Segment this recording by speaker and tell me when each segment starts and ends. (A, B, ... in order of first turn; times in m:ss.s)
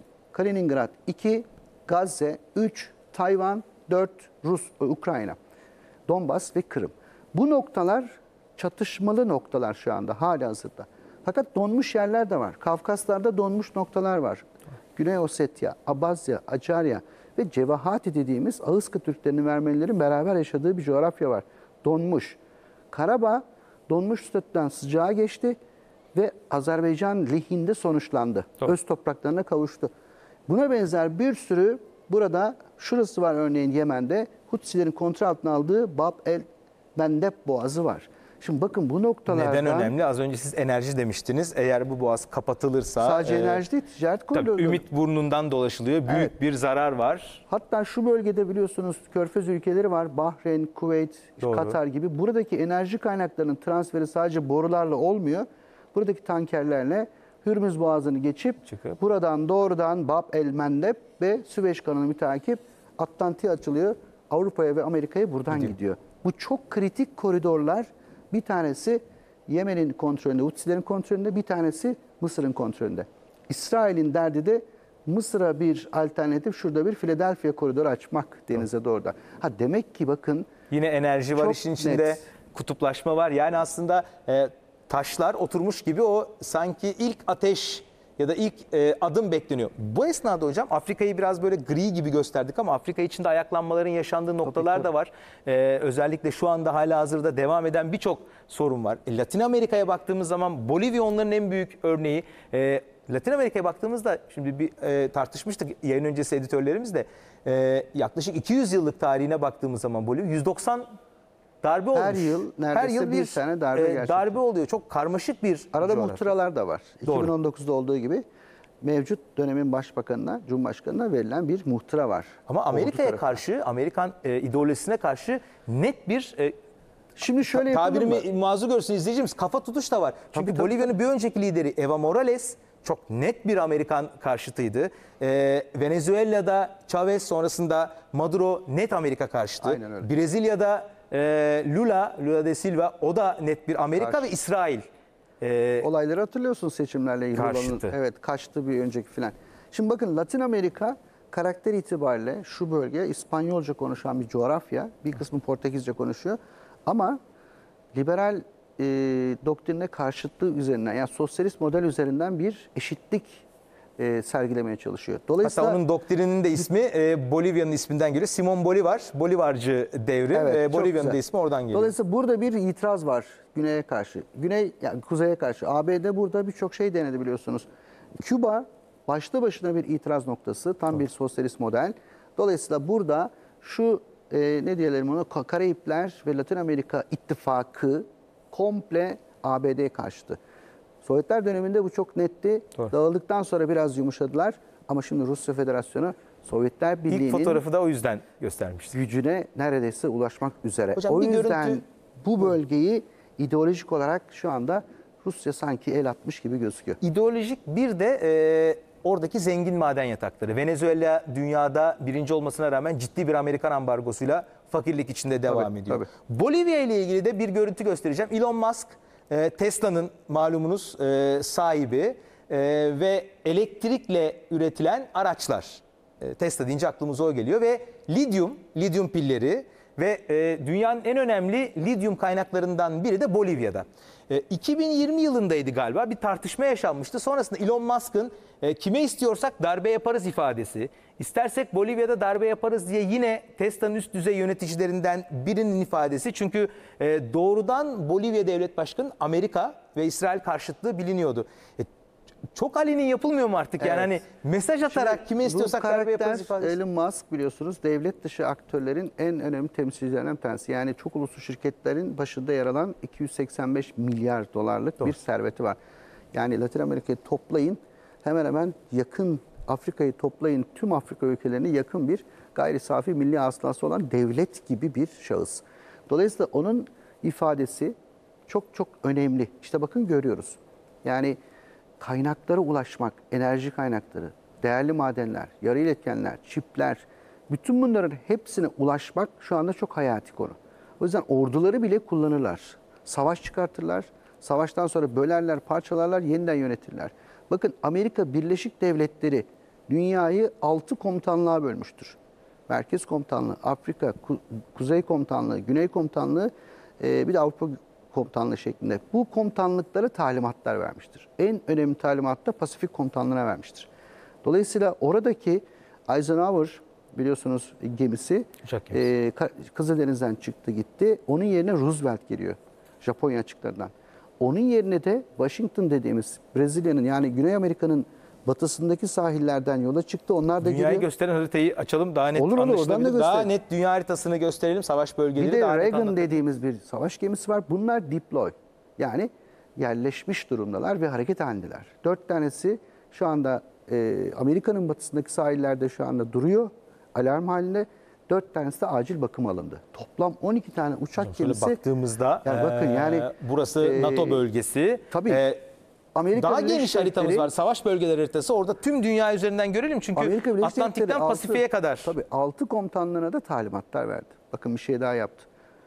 0:00.3-0:05.4 A
0:06.1-0:22.4 A
0:22.9-0:25.6 A
0:26.1-0:29.9 A
0:30.5-0:39.9 A
0:39.3-0:43.6 B
0:43.0-0:44.8 A
0:44.3-0:47.4 B
0:47.5-1:20.5 A
0:51.4-0:51.8 B
0:58.7-0:59.0 B
1:20.7-1:50.9 B
1:21.3-1:22.2 A
1:34.5-1:34.8 A
1:51.6-1:56.3 B
1:51.9-1:54.4 A
1:55.7-1:58.2 A
1:57.0-1:57.3 B
1:58.8-2:03.4 A
2:02.5-2:06.5 B
2:07.2-2:08.2 A
2:07.5-2:24.8 B
2:10.3-2:10.9 A
2:19.6-2:20.1 A
2:24.0-2:24.3 A
2:25.4-2:25.9 B
2:25.8-2:37.2 A
2:27.3-2:27.9 B
2:37.9-2:43.4 A
2:44.0-2:45.8 A
2:45.4-2:51.9 B
2:50.3-2:51.2 A
2:51.7-2:57.6 A
2:58.2-3:10.4 A
3:11.0-3:17.6 A
3:17.1-3:19.0 B
3:18.9-3:27.0 A
3:21.0-3:21.8 B
3:27.0-4:11.9 B
3:35.5-3:36.1 A
4:12.5-4:16.8 B
4:13.8-4:14.1 A
4:14.9-4:25.8 A
4:26.3-4:37.9 A
4:38.5-4:41.4 A
4:42.0-5:13.9 A
5:14.4-5:31.0 A
5:18.6-5:19.0 B
5:30.6-5:36.4 B
5:32.3-5:33.5 A
5:35.4-5:51.8 A
5:51.2-5:55.6 B
5:52.4-5:53.3 A
5:53.8-5:54.4 A
5:55.1-5:55.4 A
5:56.1-5:57.5 A
5:56.3-6:02.1 B
6:00.1-6:05.5 A